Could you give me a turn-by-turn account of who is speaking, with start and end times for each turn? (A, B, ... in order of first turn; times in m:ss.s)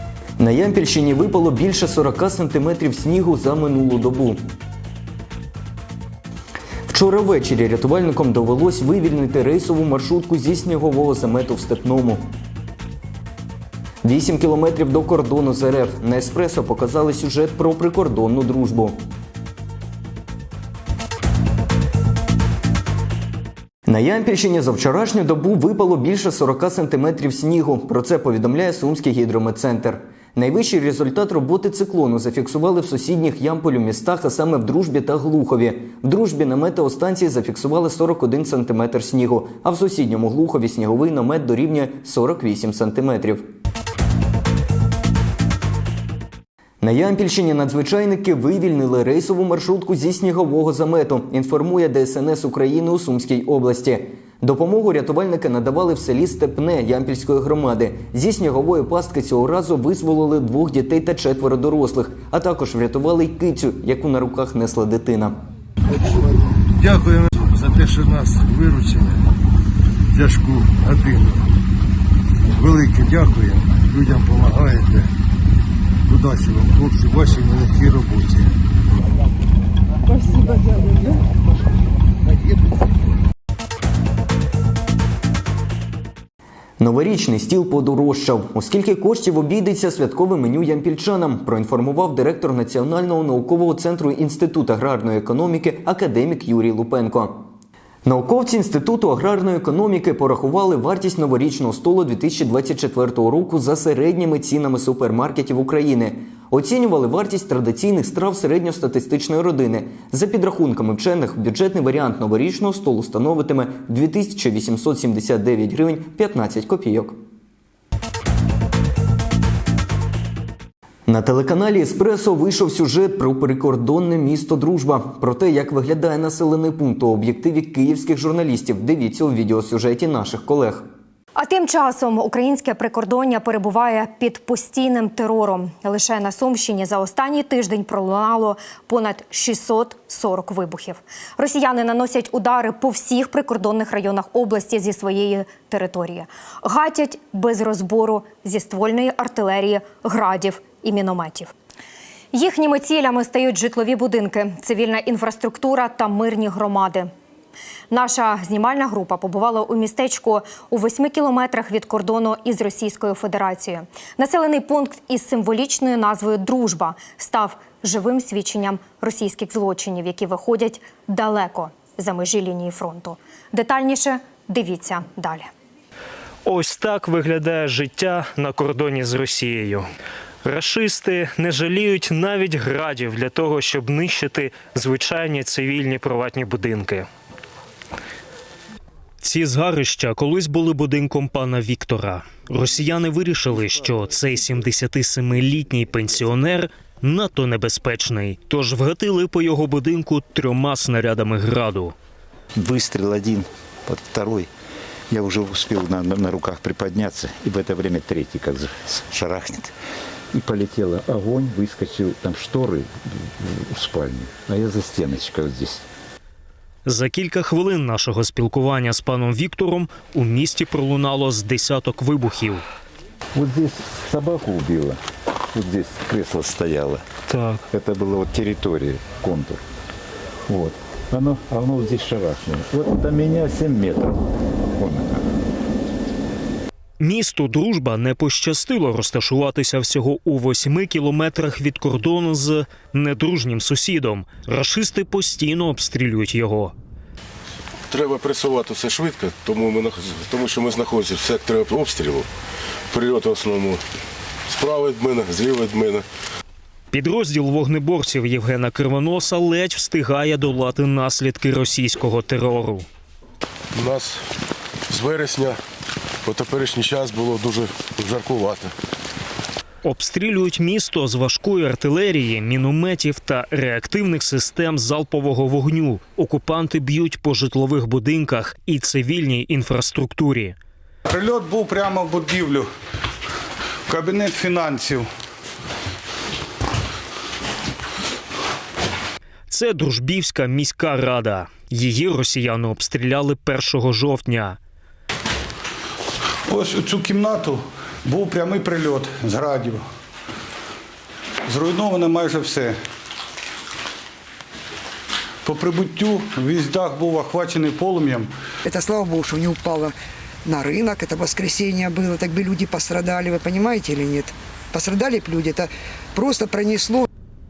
0:00.4-0:04.4 A
0:06.9-0:12.3 A
0:14.0-0:19.0 A
0:23.9-0:43.4 A
0:46.8-1:05.4 A
1:06.7-1:09.2 B
1:10.1-1:11.5 B
1:12.5-1:15.1 B
1:16.0-1:18.6 B
1:26.8-1:37.4 A
1:38.0-1:57.2 A
2:01.1-2:10.8 A
2:11.3-2:31.5 C
2:32.3-2:37.1 C
2:37.9-2:55.5 C
2:56.4-2:59.9 D
3:00.4-3:07.1 D
3:09.2-3:21.9 D
3:22.6-3:24.5 E
3:25.1-3:29.7 E
3:30.3-3:35.8 E
3:36.8-3:42.6 D
3:43.3-3:45.0 E
3:45.5-3:47.0 E
3:47.3-3:47.6 D
3:47.7-3:49.6 E
3:50.5-3:54.2 E
3:54.8-3:55.2 E
3:57.0-4:06.7 D
4:07.9-4:12.3 F
4:12.9-4:13.8 F
4:14.5-4:16.0 F
4:16.9-4:22.8 D
4:23.7-4:24.2 F
4:24.9-4:25.6 F
4:26.2-4:28.7 F
4:29.8-4:40.6 D
4:41.0-4:42.7 G
4:43.9-4:45.0 G
4:49.5-4:54.6 D
4:56.5-4:59.8 G
5:01.5-5:02.8 G
5:05.4-5:08.3 G
5:08.6-5:17.1 H